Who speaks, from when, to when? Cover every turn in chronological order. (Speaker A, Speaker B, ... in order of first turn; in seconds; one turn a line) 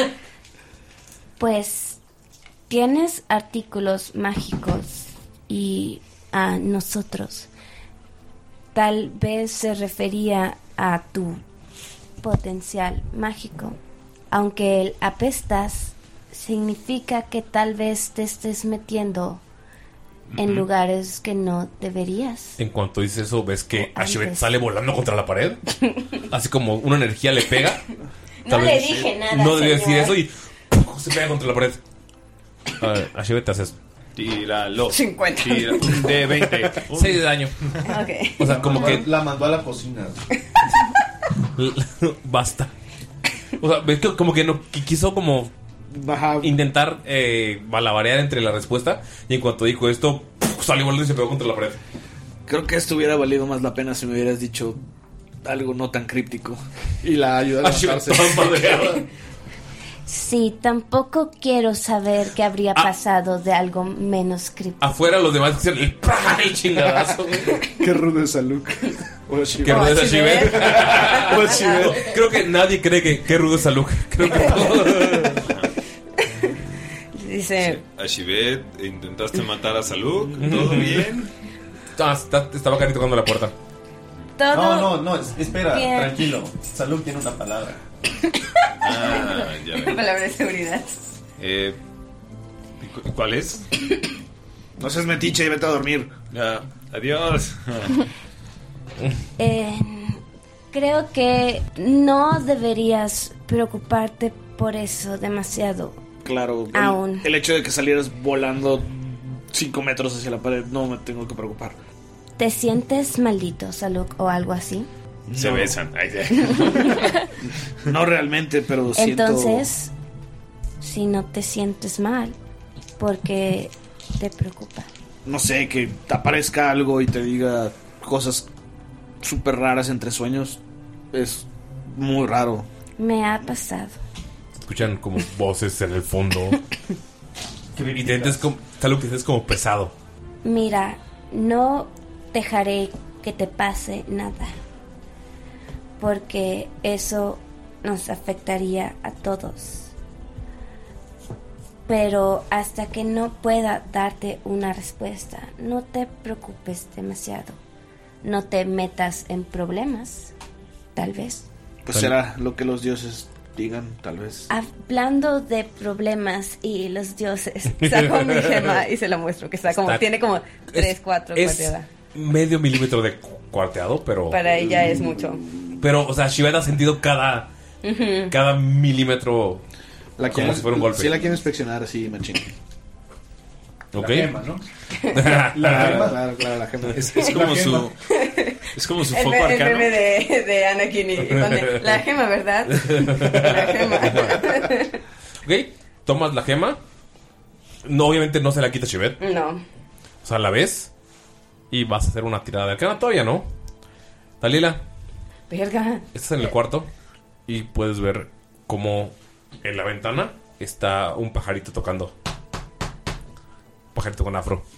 Speaker A: 1.4-2.0
Speaker A: 2.7-7.5
Speaker A: 8.7-11.4
Speaker A: 12.2-13.8
Speaker A: 14.3-19.4
Speaker B: 20.3-20.6
Speaker A: 20.4-22.6
Speaker C: 22.6-25.6
Speaker A: 23.7-24.5
Speaker C: 26.3-27.8
Speaker D: 28.4-30.1
Speaker C: 28.5-31.8
Speaker C: 32.8-33.7
Speaker B: 34.1-37.9
Speaker D: 34.9-36.1
Speaker C: 36.9-37.5
Speaker D: 37.8-38.9
Speaker C: 38.4-39.1
Speaker E: 38.4-40.2
Speaker C: 41.5-42.7
Speaker C: 43.6-45.5
Speaker F: 45.9-46.5
Speaker C: 46.4-51.8
Speaker F: 52.5-54.8
Speaker F: 55.4-58.5
Speaker C: 57.6-59.0
Speaker A: 60.0-64.8
Speaker C: 64.8-67.6
Speaker F: 67.8-70.0
Speaker C: 69.6-75.4
Speaker D: 69.6-71.8
Speaker F: 70.5-72.0
Speaker B: 75.4-75.7
Speaker D: 77.2-77.8
Speaker B: 77.6-81.3
Speaker C: 80.4-81.1
Speaker C: 82.0-83.5
Speaker A: 84.4-86.3
Speaker E: 84.5-87.8
Speaker B: 88.8-90.0
Speaker D: 88.9-91.0
Speaker B: 91.4-91.8
Speaker B: 92.8-93.6
Speaker F: 94.8-96.1
Speaker B: 96.3-98.0
Speaker A: 99.4-100.2
Speaker A: 100.7-106.0
Speaker F: 106.2-111.8
Speaker A: 106.7-107.3
Speaker A: 112.4-114.9
Speaker F: 115.3-115.8
Speaker B: 115.3-117.2
Speaker F: 117.8-119.7
Speaker A: 118.9-119.9
Speaker A: 120.8-122.3
Speaker A: 123.0-124.9
Speaker F: 125.2-128.5
Speaker F: 129.2-130.6
Speaker F: 131.1-132.7
Speaker A: 133.0-134.0
Speaker C: 134.6-136.6
Speaker E: 137.7-138.5
Speaker C: 137.9-139.9
Speaker A: 140.4-144.5
Speaker A: 146.0-149.9
Speaker A: 151.9-157.6
Speaker A: 158.2-160.3
Speaker A: 160.9-161.5
Speaker F: 161.8-164.5
Speaker A: 164.5-167.5
Speaker D: 167.5-171.9
Speaker C: 167.8-168.8
Speaker C: 169.7-170.0
Speaker C: 170.7-174.4
Speaker D: 174.3-175.4
Speaker C: 175.8-177.5
Speaker D: 177.8-178.3
Speaker C: 178.3-179.6
Speaker F: 180.2-182.5
Speaker C: 180.3-181.1
Speaker C: 183.9-184.3
Speaker E: 183.9-184.6
Speaker C: 185.1-186.0
Speaker E: 185.3-186.2
Speaker F: 185.6-187.0
Speaker B: 186.9-187.9
Speaker E: 187.2-187.9
Speaker D: 188.1-195.0
Speaker B: 188.7-190.0
Speaker C: 191.2-191.8
Speaker C: 192.7-194.6
Speaker C: 195.4-196.8
Speaker C: 197.8-199.2
Speaker D: 199.2-199.6
Speaker C: 200.2-200.9
Speaker C: 201.7-203.5
Speaker C: 204.4-204.8
Speaker D: 205.5-206.0
Speaker C: 206.1-206.9
Speaker C: 207.5-212.1
Speaker C: 213.9-214.6